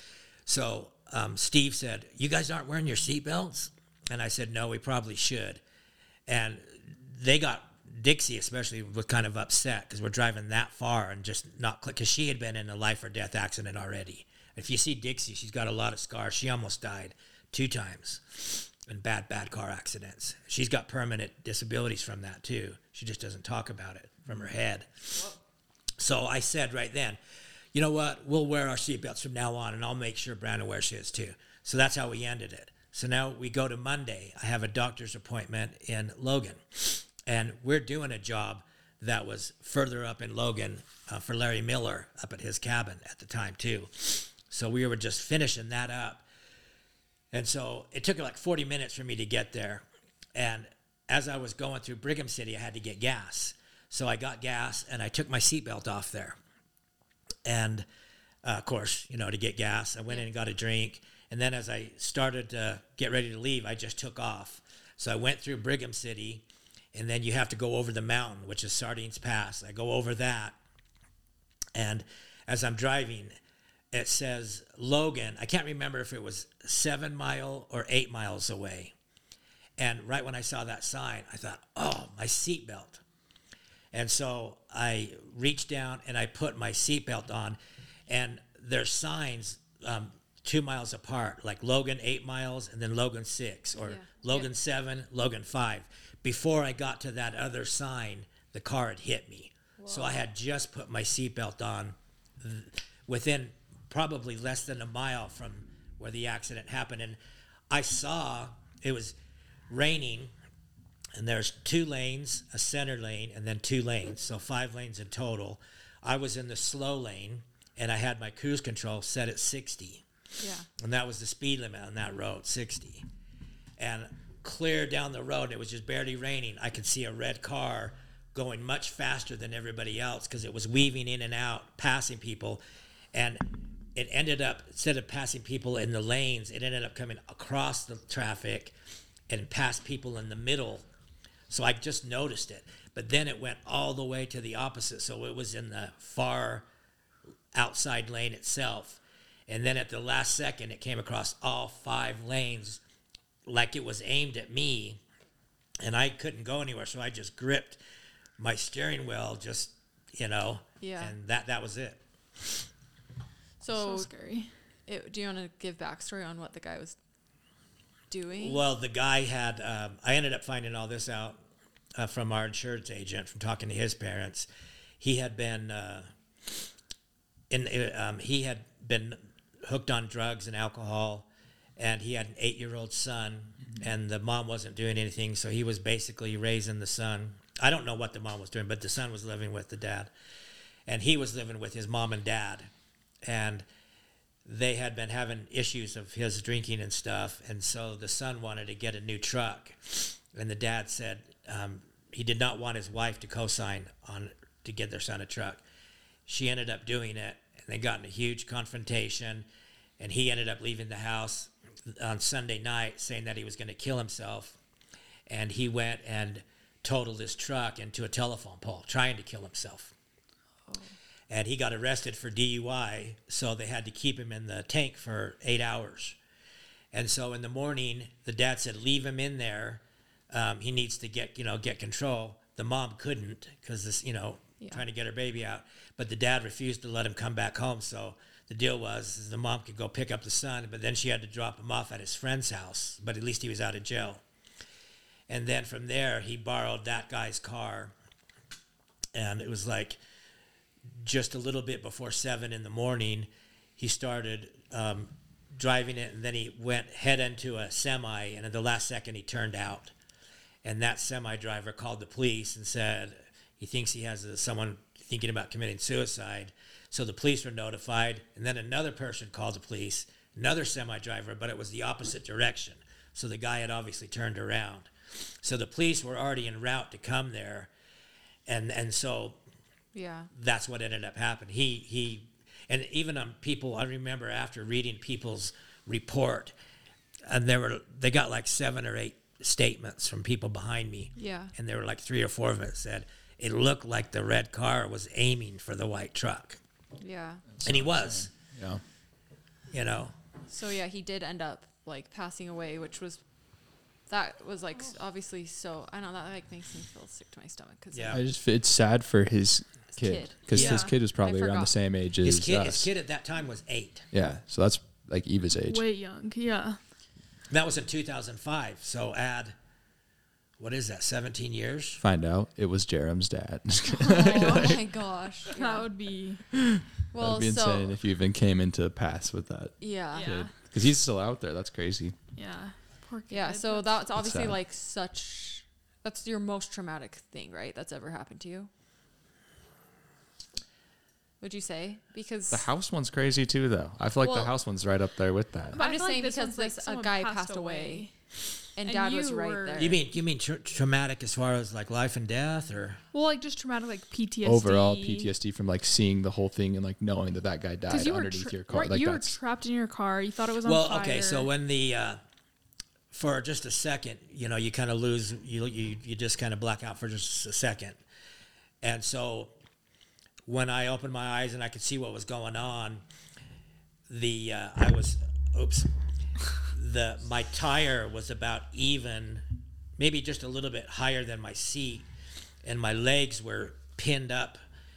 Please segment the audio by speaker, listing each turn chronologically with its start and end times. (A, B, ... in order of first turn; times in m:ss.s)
0:00.4-0:05.6 A
0:06.3-0:25.3 A
0:26.0-0:27.2 A
0:27.7-0:46.2 A
0:47.3-0:49.8 A
0:50.3-0:56.4 A
0:57.4-0:57.8 A
0:58.4-1:10.6 A
1:11.7-1:13.3 A
1:13.9-1:18.9 A
1:19.8-1:23.0 A
1:23.9-1:47.2 A
1:33.8-1:34.5 B
1:39.8-1:40.2 B
1:47.7-1:49.1 A
1:49.7-1:50.3 A
1:51.2-2:00.0 A
2:00.4-2:00.7 B
2:00.8-2:03.0 A
2:03.8-2:12.6 A
2:13.1-2:13.4 A
2:13.9-2:18.7 A
2:19.3-2:20.8 A
2:21.5-2:26.6 A
2:27.5-2:32.8 A
2:33.4-2:35.0 A
2:35.8-2:37.8 A
2:38.4-2:42.0 A
2:40.8-2:41.1 B
2:43.6-2:44.1 B
2:43.7-2:44.5 C
2:44.9-2:47.0 B
2:48.1-2:48.6 B
2:48.4-2:51.4 A
2:51.9-2:54.5 A
2:55.0-2:56.6 A
2:57.5-3:01.2 A
3:01.8-3:10.1 A
3:10.9-3:12.7 A
3:13.2-3:13.6 A
3:14.4-3:25.6 A
3:26.3-3:29.4 A
3:30.0-3:34.6 A
3:35.3-3:39.9 A
3:40.7-3:41.0 B
3:41.3-3:46.2 A
3:46.9-4:04.2 A
4:05.3-4:07.9 A
4:09.1-4:10.0 A
4:11.0-4:19.9 A
4:20.6-4:37.7 A
4:38.5-4:39.4 A
4:39.9-4:40.3 B
4:40.3-4:46.5 A
4:47.2-4:56.6 A
4:51.2-4:51.5 B
4:57.0-4:57.4 B
4:57.5-4:58.8 D
4:57.6-4:58.3 A
4:59.7-5:00.1 A
5:00.5-5:03.2 B
5:04.1-5:08.2 B
5:07.9-5:08.2 A
5:08.1-5:12.9 D
5:09.9-5:11.7 B
5:10.5-5:10.9 A
5:10.6-5:10.9 C
5:12.2-5:14.1 A
5:14.1-5:15.8 D
5:15.6-5:16.8 C
5:17.5-5:19.5 A
5:20.6-5:22.0 A
5:22.0-5:24.8 D
5:24.1-5:25.9 B
5:24.1-5:24.6 C
5:25.5-5:26.4 C
5:26.7-5:32.2 D
5:27.1-5:27.9 B
5:29.8-5:30.3 B
5:30.1-5:30.5 C
5:32.4-5:34.1 C
5:33.3-5:38.7 B
5:34.2-5:34.6 D
5:41.4-5:42.7 B
5:42.5-5:45.8 D
5:44.2-5:44.5 B
5:45.7-5:48.1 C
5:45.8-5:48.1 B
5:48.8-5:50.0 B
5:48.8-5:50.0 C
5:49.8-5:53.0 A
5:53.1-5:55.3 C
5:54.4-5:59.4 D
5:57.9-6:01.5 C
6:00.6-6:02.2 A
6:03.1-6:08.0 A
6:08.8-6:09.5 A
6:10.4-6:13.0 A
6:14.1-6:15.9 A
6:16.6-6:19.4 A
6:20.0-6:22.1 A
6:22.6-6:24.6 A